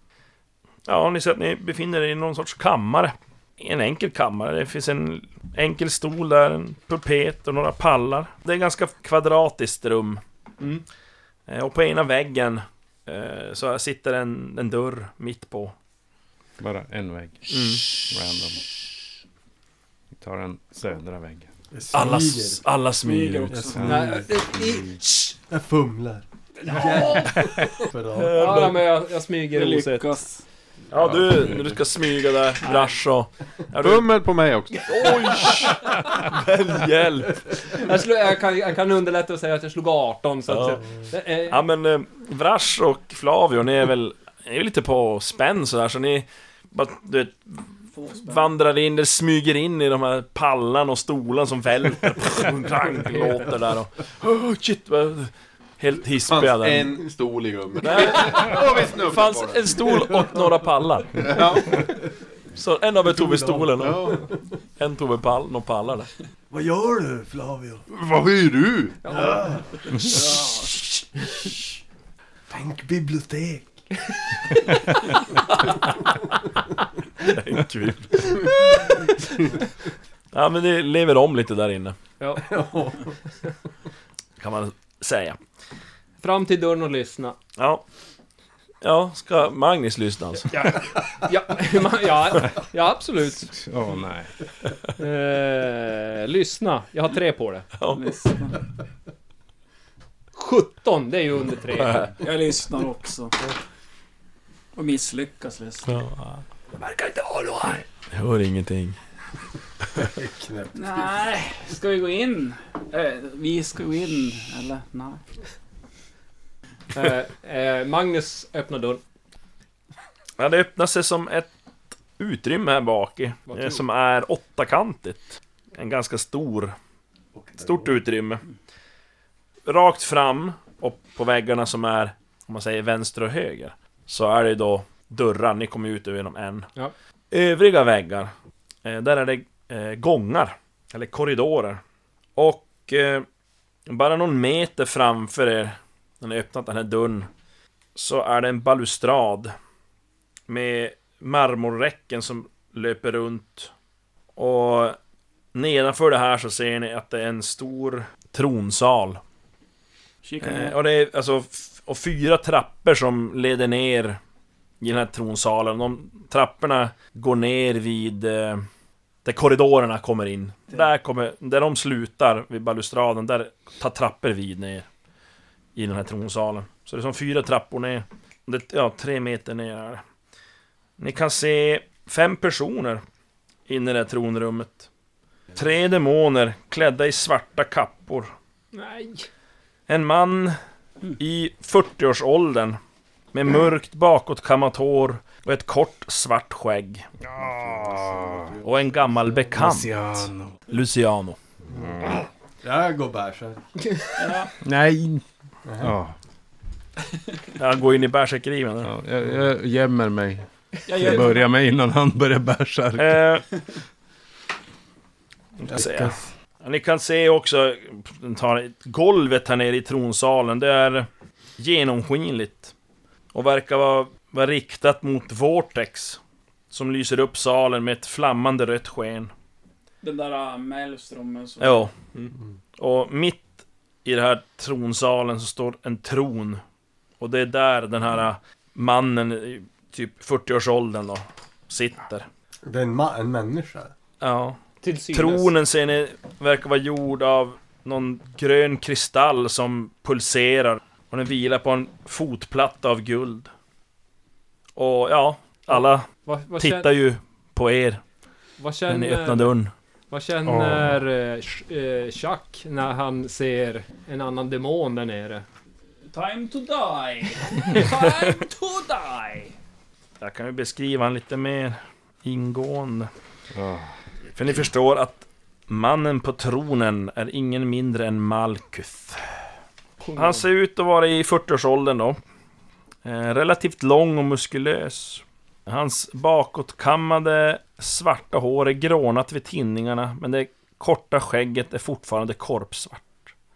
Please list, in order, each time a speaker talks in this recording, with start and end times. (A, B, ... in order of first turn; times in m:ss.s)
0:00.8-0:10.2 A
0:11.5-0:15.7 A
0:16.6-0:18.7 B
0:17.5-0:18.0 A
0:20.2-0:21.5 B
0:21.7-0:22.6 C
0:21.9-0:23.6 A
0:23.0-0:23.9 D
0:23.5-0:24.2 C
0:23.7-0:24.1 B
0:23.8-0:25.0 E
0:25.5-0:28.6 C
0:26.7-0:27.4 E
0:28.2-0:28.8 A
0:28.3-0:30.2 E
0:29.5-0:30.4 D
0:30.9-0:34.1 A
0:31.0-0:31.8 F
0:32.6-0:32.9 E
0:33.8-0:35.7 F
0:34.9-0:37.4 A
0:37.6-0:41.6 E
0:40.5-0:40.8 A
0:41.5-0:56.9 A
0:47.9-0:48.5 D
0:52.8-0:53.5 E
0:56.2-0:59.8 F
0:57.8-1:01.7 A
1:01.2-1:01.8 F
1:02.6-1:04.2 A
1:03.7-1:04.2 F
1:04.8-1:06.1 A
1:06.5-1:07.8 C
1:07.9-1:09.2 F
1:09.0-1:09.4 E
1:09.1-1:09.6 C
1:12.5-1:13.8 C
1:17.2-1:18.5 A
1:20.3-1:22.0 A
1:22.2-1:22.4 E
1:22.4-1:23.2 C
1:24.4-1:25.4 A
1:26.2-1:27.4 E
1:27.6-1:27.8 A
1:28.8-1:30.5 A
1:30.5-1:33.6 E
1:33.5-1:34.3 B
1:35.0-1:37.7 E
1:37.8-1:38.1 A
1:37.9-1:38.6 D
1:40.4-1:42.1 E
1:41.7-1:42.1 A
1:42.2-1:43.4 D
1:44.7-1:46.0 D
1:45.9-1:49.0 A
1:49.9-1:51.1 C
1:50.7-1:55.2 D
1:56.9-1:59.0 E
2:00.4-2:01.5 A
2:02.2-2:06.7 A
2:03.5-2:03.8 E
2:07.4-2:07.9 C
2:07.6-2:08.4 A
2:09.6-2:16.7 A
2:17.3-2:18.3 A
2:18.8-2:21.8 A
2:22.4-2:23.2 A
2:23.9-2:27.3 A
2:27.9-2:29.5 A
2:30.5-2:33.7 A
2:34.4-2:35.0 A
2:35.5-2:39.2 A
2:40.2-2:40.8 D
2:40.4-2:44.2 A
2:44.8-2:48.6 A
2:49.2-2:54.8 A
2:55.8-3:00.0 A
3:01.0-3:03.0 A
3:03.7-3:04.9 A
3:05.5-3:08.3 A
3:08.7-3:09.3 E
3:09.9-3:10.6 A
3:11.2-3:12.8 A
3:13.3-3:17.0 A
3:17.2-3:18.5 B
3:17.4-3:19.6 C
3:18.6-3:19.9 A
3:19.5-3:20.6 B
3:20.7-3:21.4 A
3:21.7-3:22.0 C
3:21.7-3:22.1 B
3:22.6-3:23.7 C
3:24.2-3:24.5 D
3:24.6-3:25.2 B
3:25.6-3:25.9 C
3:25.8-3:26.1 B
3:27.6-3:28.9 A
3:28.8-3:33.4 B
3:30.9-3:31.5 D
3:33.0-3:33.4 A
3:35.6-3:41.1 A
3:35.7-3:36.3 C
3:41.6-3:42.7 A
3:43.3-3:46.2 A
3:46.7-3:49.3 A
3:50.0-3:51.9 D
3:51.6-3:51.9 A
3:52.8-3:53.5 A
3:54.0-3:56.6 A
3:57.2-4:02.3 A
4:02.6-4:03.9 C
4:04.2-4:04.6 A
4:04.8-4:05.5 E
4:05.1-4:13.5 A
4:14.8-4:16.1 A
4:15.7-4:16.9 E
4:16.6-4:18.0 A
4:18.6-4:19.5 E
4:18.9-4:19.7 A
4:20.1-4:25.4 E
4:20.5-4:21.0 B
4:26.1-4:29.5 D
4:30.2-4:33.1 A
4:33.5-4:33.9 B
4:34.3-4:39.3 A
4:40.0-4:40.4 E
4:40.2-4:42.2 A
4:43.0-4:53.3 A